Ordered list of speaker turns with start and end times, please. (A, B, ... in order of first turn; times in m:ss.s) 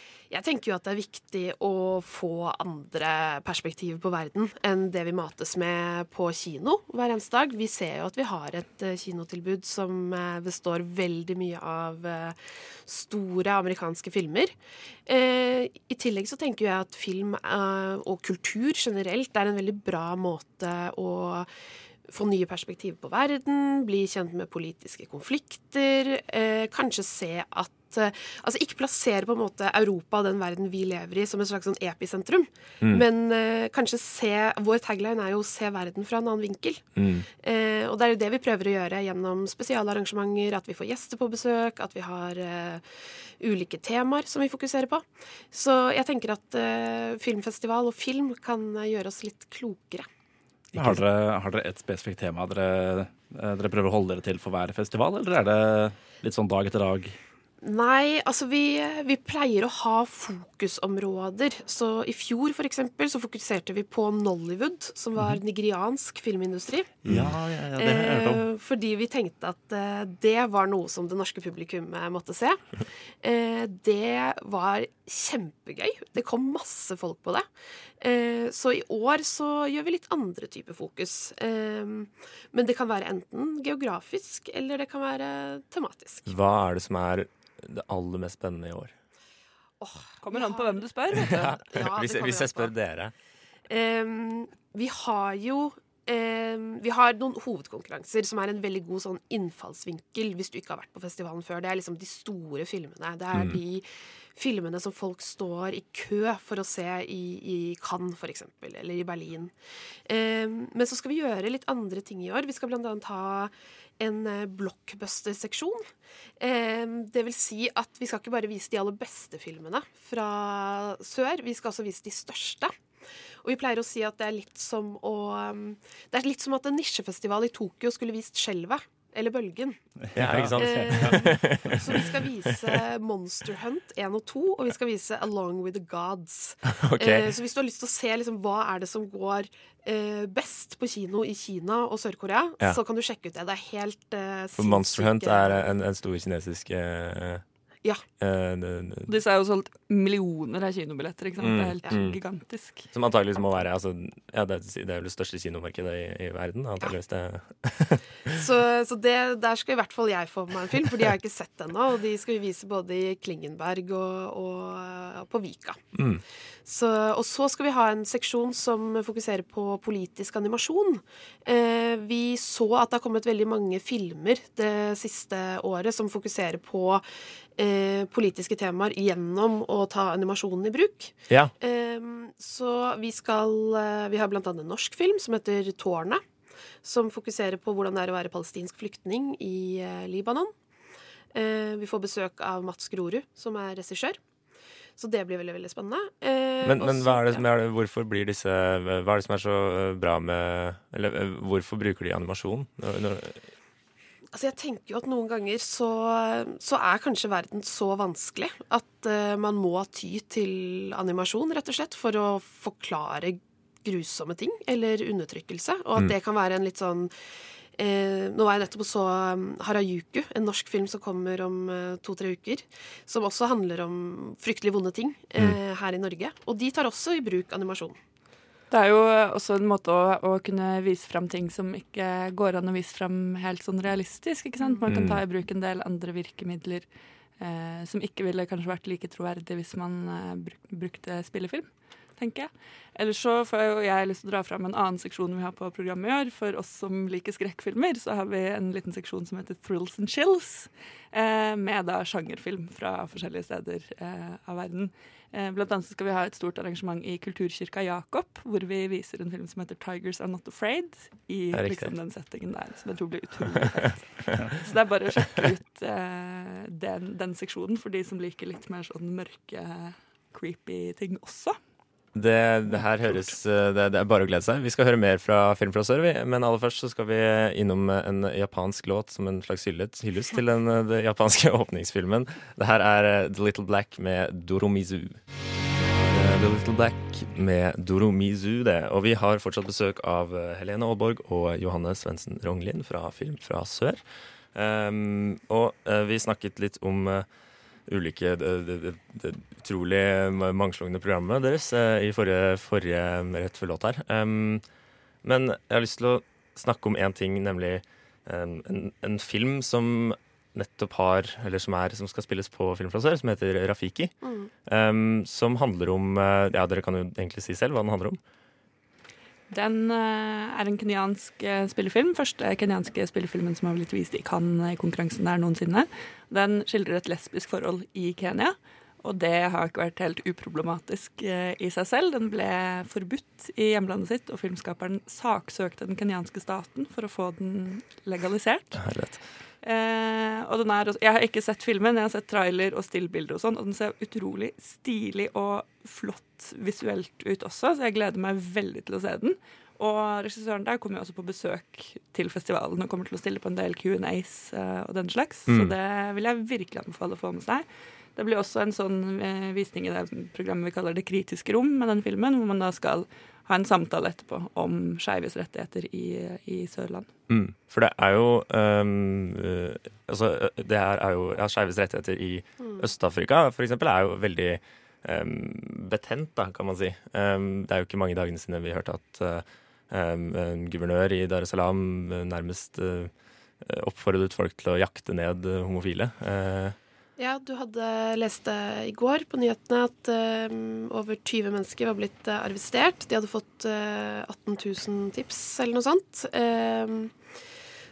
0:00.3-0:14.5 A
0:15.1-0:21.5 A
0:22.1-0:36.8 A
0:36.9-0:37.3 B
0:37.4-0:50.1 A
0:50.7-0:51.0 B
0:50.7-0:57.2 C
0:57.6-1:06.9 A
1:07.0-1:08.4 C
1:07.1-1:07.3 B
1:07.8-1:12.7 A
1:13.2-1:17.5 A
1:18.0-1:26.3 A
1:26.2-1:28.9 B
1:29.8-1:32.7 A
1:30.2-1:31.5 D
1:31.1-1:33.1 B
1:33.7-1:49.5 A
1:43.3-1:43.6 B
1:50.1-1:55.9 A
1:56.4-2:02.7 A
2:03.4-2:09.8 A
2:10.0-2:12.0 C
2:10.1-2:12.5 B
2:10.6-2:25.6 A
2:16.6-2:17.3 B
2:24.6-2:27.4 B
2:28.2-2:29.1 B
2:29.1-2:32.8 D
2:31.4-2:32.2 B
2:32.9-2:38.4 B
2:38.3-2:45.8 A
2:45.9-2:46.2 B
2:46.6-2:57.0 A
2:57.6-3:06.2 A
3:06.8-3:10.5 A
3:11.3-3:14.2 A
3:15.0-3:17.4 A
3:16.6-3:23.4 B
3:24.3-3:37.1 A
3:37.8-3:48.0 A
3:48.7-4:31.6 D
3:54.9-3:55.2 B
4:21.5-4:21.9 B
4:32.1-4:45.2 B
4:45.8-4:54.0 B
4:54.5-4:57.3 B
4:57.9-5:04.6 B
5:05.2-5:14.1 B
5:14.2-5:14.5 A
5:14.6-5:18.2 B
5:19.5-5:38.9 D
5:38.8-5:39.2 B
5:39.6-6:07.1 D
5:55.5-5:55.7 B
6:07.3-6:26.8 B
6:27.2-6:37.1 A